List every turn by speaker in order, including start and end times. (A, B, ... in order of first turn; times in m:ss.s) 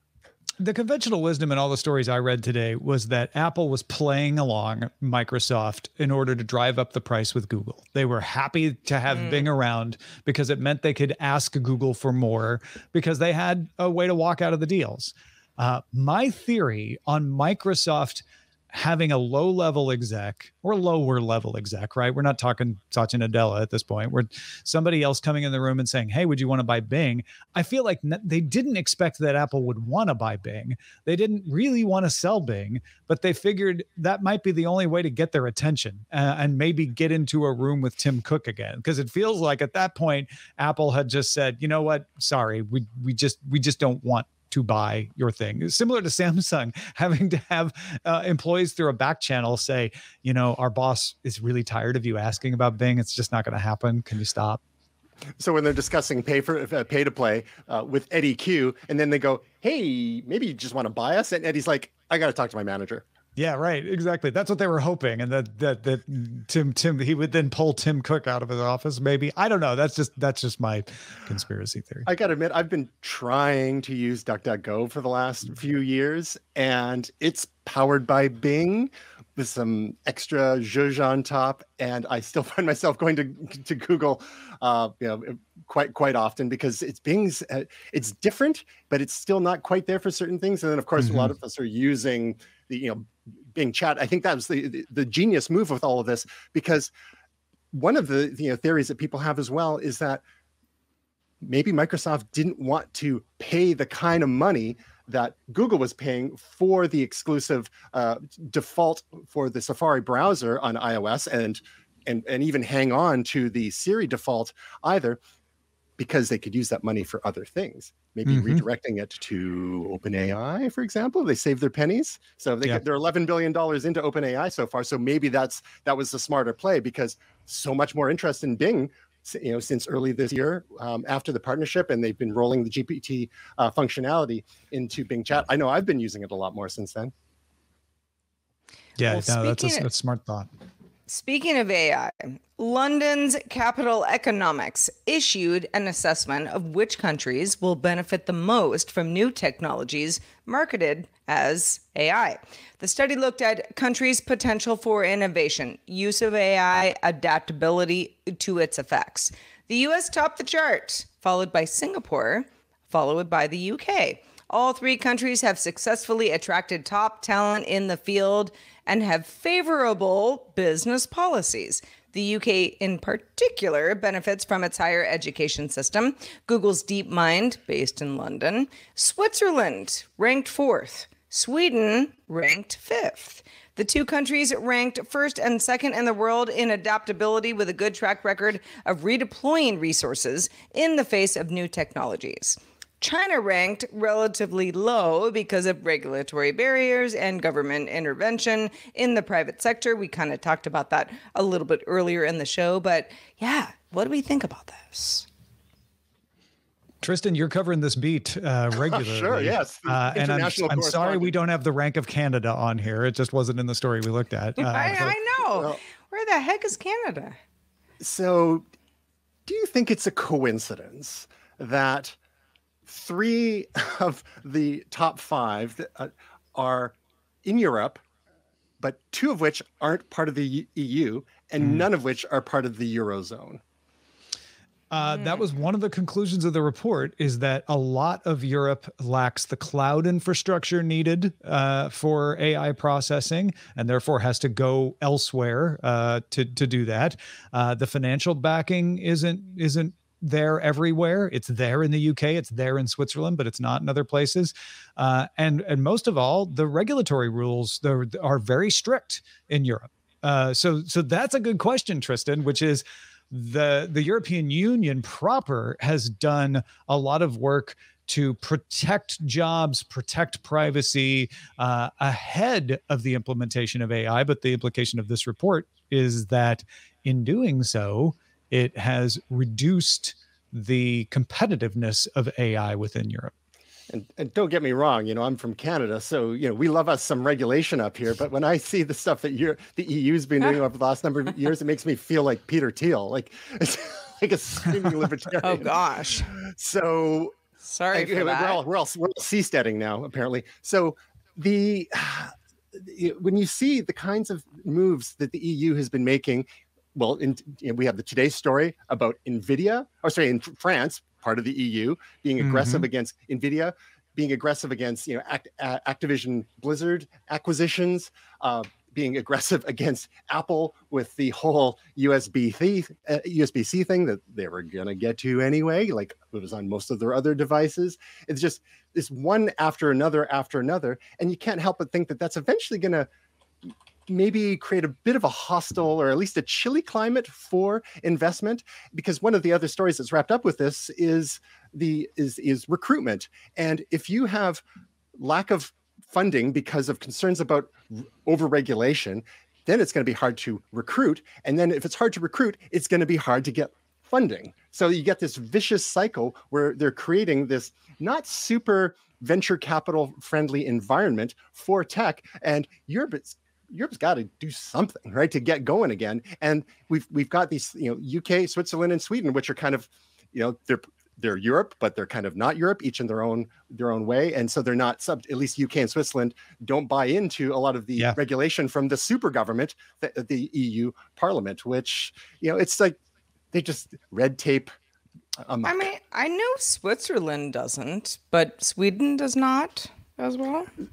0:00.6-0:54.6 A
0:09.1-0:09.4 B
0:55.4-1:03.0 C
1:03.4-1:12.1 A
1:12.0-1:36.9 C
1:31.0-1:31.3 A
1:37.7-1:40.2 C
1:41.4-1:55.2 C
1:56.0-2:17.1 C
1:58.2-1:58.6 A
2:19.0-2:20.5 A
2:19.1-2:19.9 B
2:21.1-3:25.3 B
3:27.0-3:35.1 A
3:28.7-3:31.3 C
3:34.6-3:37.4 B
3:35.5-3:35.8 C
3:38.0-3:38.6 C
3:39.4-3:42.2 C
3:42.9-3:48.0 C
3:48.8-3:53.6 C
3:54.9-4:43.3 A
3:55.1-3:55.4 B
4:43.9-4:57.3 C
4:55.4-4:56.3 B
4:57.6-4:58.6 B
4:57.9-5:33.1 C
5:12.4-5:12.9 A
5:34.1-5:44.6 C
5:45.2-6:23.0 C
6:23.5-6:24.7 C
6:25.4-6:25.9 C
6:25.6-6:30.7 B